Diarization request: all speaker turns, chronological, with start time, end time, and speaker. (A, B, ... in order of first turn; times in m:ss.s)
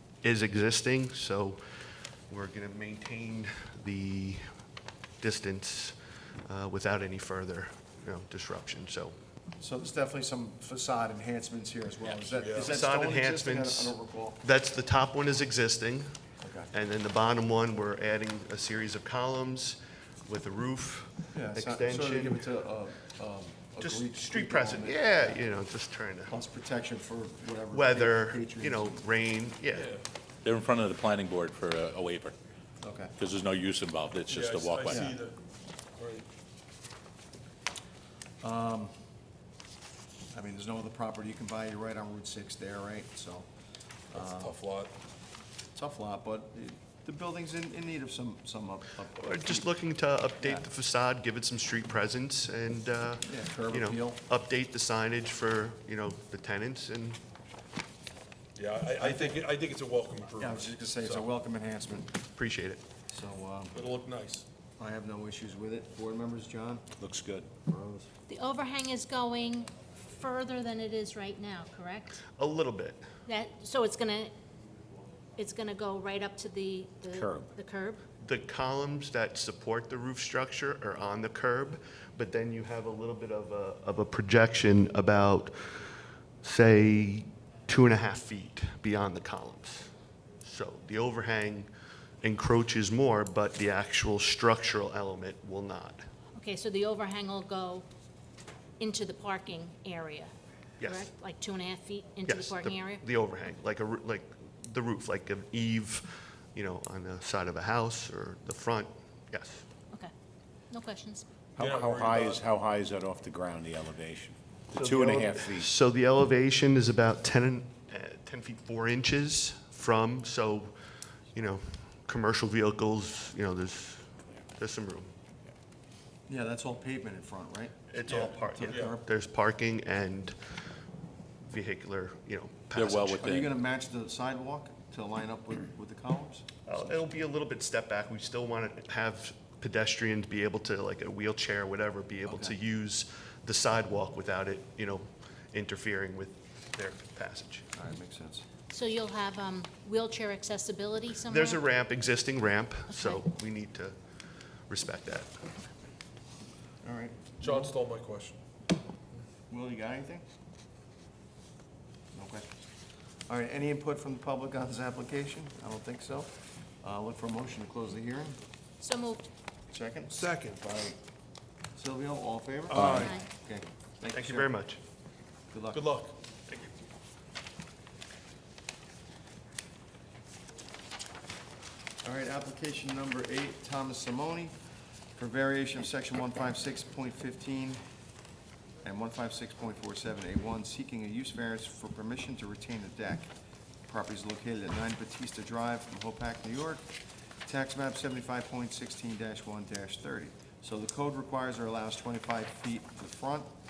0:00.2-0:01.6 A
0:02.3-0:04.4 A
0:05.2-0:09.2 A
0:09.6-0:14.4 B
0:12.2-0:12.7 C
0:12.6-0:16.1 A
0:16.4-0:16.7 B
0:16.7-0:22.4 A
0:21.3-0:25.4 B
0:23.8-0:26.4 A
0:26.3-0:29.0 B
0:27.7-0:29.9 A
0:29.8-0:30.0 C
0:30.4-0:32.3 D
0:32.8-0:33.1 B
0:33.2-0:35.1 D
0:34.3-0:35.4 C
0:34.9-0:35.2 B
0:36.0-0:36.3 C
0:38.4-0:38.9 B
0:40.3-0:43.5 B
0:44.1-0:44.6 B
0:44.2-0:44.9 C
0:45.7-0:49.8 B
0:49.2-0:57.2 A
0:53.2-0:54.2 B
0:58.6-1:01.3 C
0:59.0-0:59.4 B
1:00.4-1:02.2 B
1:02.4-1:02.8 A
1:03.1-1:03.8 B
1:03.7-1:04.5 C
1:04.8-1:06.9 B
1:07.0-1:07.5 E
1:07.6-1:08.1 B
1:08.3-1:12.2 F
1:12.4-1:13.1 A
1:13.3-1:14.3 F
1:15.4-1:18.0 F
1:17.1-1:17.5 E
1:18.2-1:25.8 A
1:26.4-1:31.7 A
1:32.2-1:36.0 A
1:36.4-1:37.9 F
1:38.8-1:40.3 F
1:40.8-1:41.1 A
1:40.8-1:43.0 F
1:42.3-1:49.6 A
1:50.7-1:51.2 F
1:51.6-1:55.7 E
1:51.6-1:52.4 C
1:54.7-2:00.8 A
2:01.3-2:05.1 A
2:06.3-2:07.8 B
2:07.9-2:10.4 A
2:08.5-2:09.0 B
2:11.4-2:13.3 A
2:12.8-2:13.5 D
2:13.2-2:16.4 B
2:16.6-2:27.7 A
2:22.3-2:22.6 B
2:27.7-2:28.4 B
2:28.7-2:31.6 F
2:31.3-2:34.0 A
2:32.9-2:33.2 F
2:34.7-2:35.4 A
2:36.8-2:37.7 B
2:37.4-2:38.4 C
2:39.5-2:40.2 B
2:42.1-2:42.5 B
2:43.3-2:48.4 B
2:48.8-2:49.3 F
2:49.7-2:50.2 B
2:50.1-2:51.0 C
2:51.8-2:54.5 B
2:52.7-2:53.1 C
2:52.9-2:53.3 F
2:54.1-2:54.8 A
2:55.5-2:55.9 B
2:55.7-2:56.1 C
3:02.0-3:04.5 B
3:05.2-3:07.8 B
3:08.8-3:13.3 B
3:13.9-3:16.9 B
3:17.5-3:23.5 B